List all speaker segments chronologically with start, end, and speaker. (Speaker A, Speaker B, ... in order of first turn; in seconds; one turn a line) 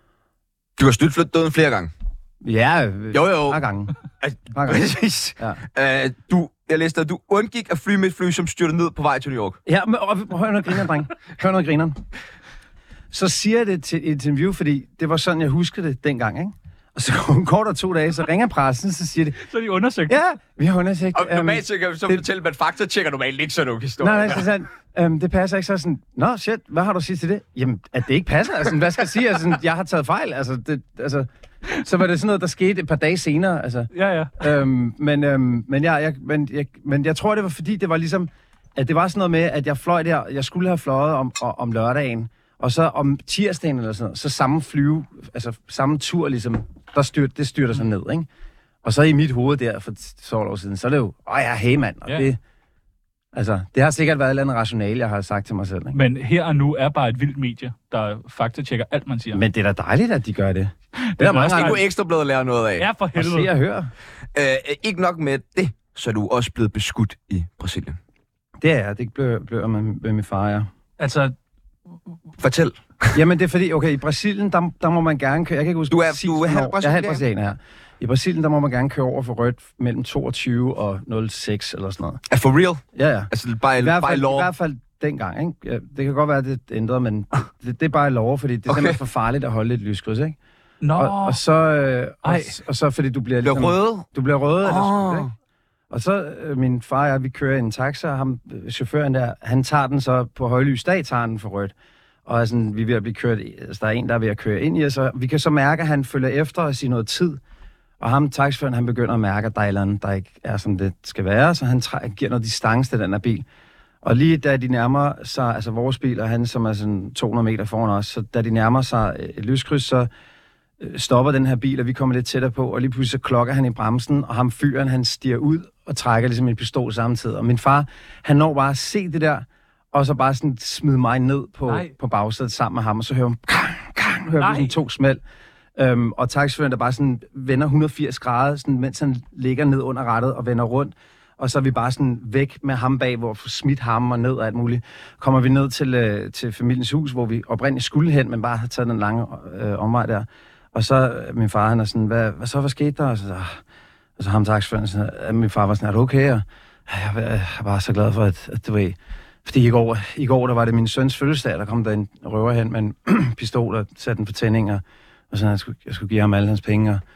Speaker A: 0.8-1.9
Speaker B: 2.4-3.9
Speaker A: 3.1-3.6
Speaker A: 4.2-9.6
Speaker B: 4.5-5.6
Speaker B: 9.7-12.0
Speaker B: 13.1-19.4
Speaker C: 19.4-20.2
Speaker B: 20.1-22.2
Speaker A: 21.1-24.5
Speaker B: 24.0-31.3
Speaker B: 31.8-48.3
Speaker C: 33.9-34.5
Speaker B: 48.8-52.4
Speaker B: 53.3-56.0
Speaker C: 55.9-59.5
Speaker B: 59.3-61.8
Speaker C: 61.0-61.8
Speaker A: 61.4-62.9
Speaker C: 62.8-63.5
Speaker B: 63.2-63.9
Speaker A: 64.3-68.0
Speaker B: 68.6-70.7
Speaker C: 71.0-71.3
Speaker A: 72.4-73.2
Speaker B: 73.1-82.2
Speaker A: 75.9-77.2
Speaker A: 82.3-84.5
Speaker B: 82.9-90.4
Speaker A: 88.7-89.0
Speaker C: 90.8-91.4
Speaker B: 91.0-95.3
Speaker C: 92.2-92.6
Speaker A: 93.4-94.1
Speaker A: 94.6-95.3
Speaker B: 95.9-101.7
Speaker B: 102.3-107.4
Speaker B: 108.0-113.5
Speaker B: 114.0-120.1
Speaker B: 120.8-135.2
Speaker C: 131.7-131.9
Speaker C: 134.4-134.8
Speaker B: 135.8-153.6
Speaker B: 154.2-167.0